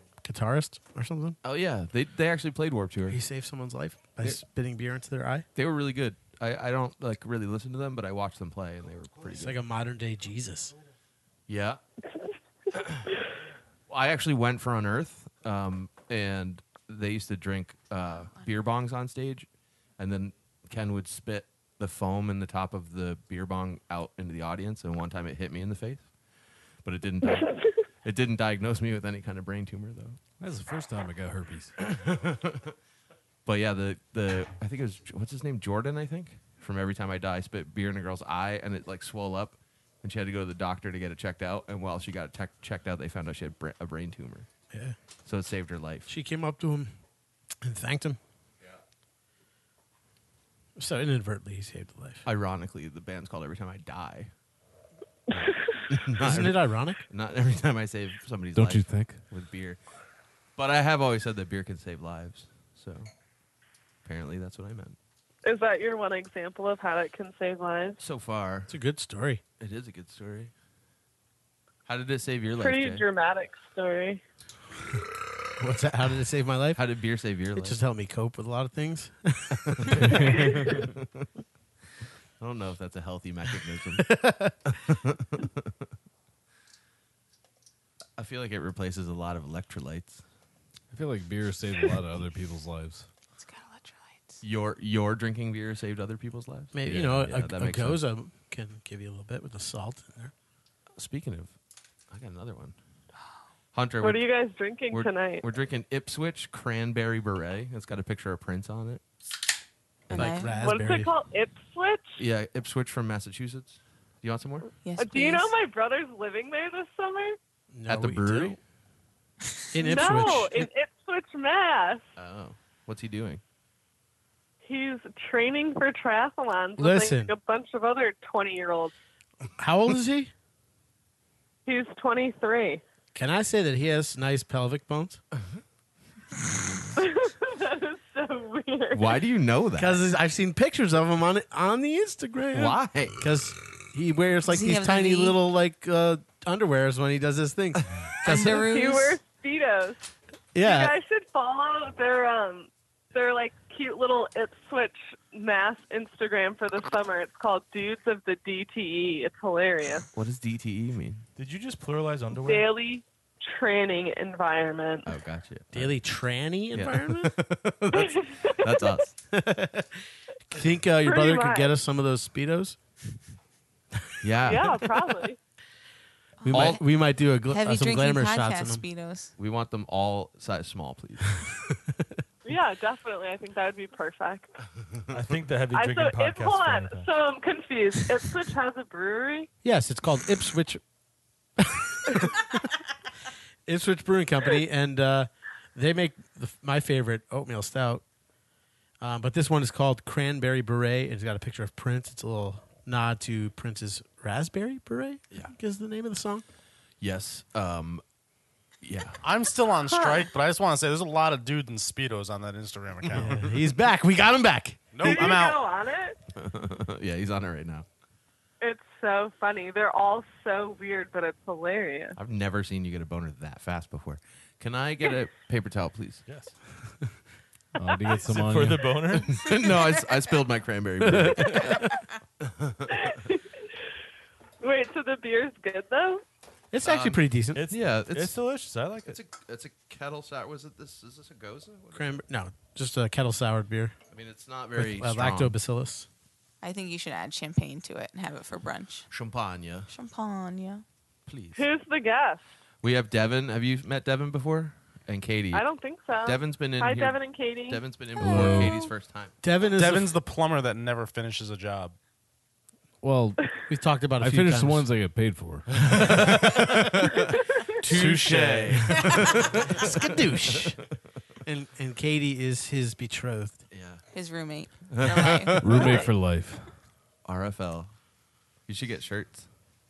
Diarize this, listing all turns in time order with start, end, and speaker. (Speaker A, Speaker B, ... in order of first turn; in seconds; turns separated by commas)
Speaker A: 0.2-1.4, Speaker B: 1.4-3.2, Speaker A: 3.1-5.5, Speaker B: 5.5-9.6, Speaker A: 9.3-10.8, Speaker B: 11.5-11.8, Speaker B: 12.7-13.1, Speaker B: 13.9-26.1, Speaker B: 26.8-30.2, Speaker C: 30.4-31.7, Speaker B: 31.8-32.8, Speaker B: 33.5-44.5, Speaker B: 45.2-46.1, Speaker A: 46.1-46.9, Speaker A: 47.6-48.2, Speaker A: 50.8-52.2, Speaker B: 52.2-54.3, Speaker D: 55.3-55.8, Speaker B: 55.9-59.8, Speaker A: 56.1-57.0, Speaker C: 58.5-59.2, Speaker B: 60.6-63.1, Speaker B: 64.0-65.0, Speaker D: 65.4-68.0, Speaker B: 68.0-68.7, Speaker A: 68.7-69.4, Speaker B: 69.6-70.5, Speaker B: 71.9-73.0, Speaker D: 72.6-74.2, Speaker A: 75.6-76.8, Speaker B: 76.8-77.8, Speaker A: 77.6-80.2, Speaker B: 79.7-81.3, Speaker C: 80.0-80.8, Speaker D: 80.4-80.6, Speaker B: 82.4-84.1, Speaker A: 84.0-84.5, Speaker B: 84.7-85.9, Speaker B: 88.2-90.2, Speaker C: 90.9-93.1, Speaker E: 93.4-94.4, Speaker B: 94.4-98.0, Speaker A: 96.7-100.3, Speaker B: 101.0-101.5, Speaker B: 102.1-102.8, Speaker B: 103.7-104.2, Speaker D: 104.0-105.5, Speaker B: 104.9-109.0, Speaker E: 110.1-110.6, Speaker A: 110.1-111.1, Speaker D: 110.5-112.2, Speaker B: 112.2-114.7, Speaker E: 114.8-115.5, Speaker D: 115.0-117.4, Speaker A: 117.7-118.6, Speaker B: 117.9-118.6, Speaker A: 119.7-120.7, Speaker D: 119.8-122.0, Speaker B: 122.2-123.4, Speaker D: 124.6-128.9, Speaker A: 126.8-127.3, Speaker A: 129.6-130.3, Speaker D: 131.7-132.8, Speaker A: 133.2-135.2, Speaker D: 137.0-139.2, Speaker B: 138.9-140.0, Speaker A: 139.8-148.7, Speaker B: 142.5-143.2, Speaker E: 144.5-145.4, Speaker E: 148.2-149.2, Speaker D: 148.4-160.1, Speaker A: 150.6-150.9, Speaker B: 160.1-161.3, Speaker F: 161.4-162.7, Speaker D: 162.3-165.1, Speaker B: 165.0-166.0, Speaker A: 165.7-167.3, Speaker B: 166.7-169.1, Speaker D: 167.9-169.1, Speaker A: 169.3-172.8, Speaker D: 171.0-171.7, Speaker B: 174.2-174.8, Speaker D: 174.4-175.4, Speaker E: 176.4-176.8, Speaker A: 176.5-178.8, Speaker B: 176.5-176.8, Speaker E: 177.5-179.3, Speaker B: 179.4-181.5, Speaker D: 182.4-184.5, Speaker F: 185.1-187.1, Speaker D: 185.7-189.5, Speaker A: 189.6-190.8, Speaker A: 191.6-192.6, Speaker A: 193.7-198.0, Speaker A: 199.0-206.4, Speaker B: 207.0-208.0, Speaker B: 208.8-209.2, Speaker G: 209.2-213.4, Speaker D: 209.8-210.3, Speaker A: 213.1-215.3, Speaker G: 214.9-215.6, Speaker D: 215.0-216.2, Speaker B: 216.3-217.9, Speaker D: 218.6-222.2, Speaker B: 222.2-226.2, Speaker F: 226.3-226.6, Speaker C: 227.8-229.0, Speaker F: 228.2-229.4, Speaker B: 229.3-233.1, Speaker C: 231.0-231.8, Speaker D: 232.9-233.7, Speaker D: 234.6-236.2, Speaker A: 236.7-237.6, Speaker B: 236.8-238.4, Speaker F: 237.6-239.2, Speaker B: 239.1-242.2, Speaker A: 241.9-243.9, Speaker B: 244.1-245.6, Speaker A: 244.8-246.1, Speaker E: 246.6-249.1, Speaker B: 249.1-249.9, Speaker E: 249.9-250.8, Speaker B: 251.3-251.7, Speaker D: 251.6-252.4, Speaker B: 252.8-255.7, Speaker D: 255.5-257.8, Speaker B: 256.2-259.3, Speaker C: 258.2-258.8, Speaker E: 258.4-258.9, Speaker A: 259.4-260.2, Speaker G: 259.8-262.0, Speaker C: 263.0-263.4, Speaker A: 263.7-264.9, Speaker C: 264.2-266.8, Speaker B: 265.8-269.9, Speaker A: 267.9-270.8, Speaker C: 267.9-268.8, Speaker A: 271.4-273.6, Speaker B: 273.7-274.0, Speaker E: 274.1-276.1, Speaker B: 274.9-276.0, Speaker C: 275.6-276.7, Speaker B: 277.2-277.9, Speaker B: 278.7-279.5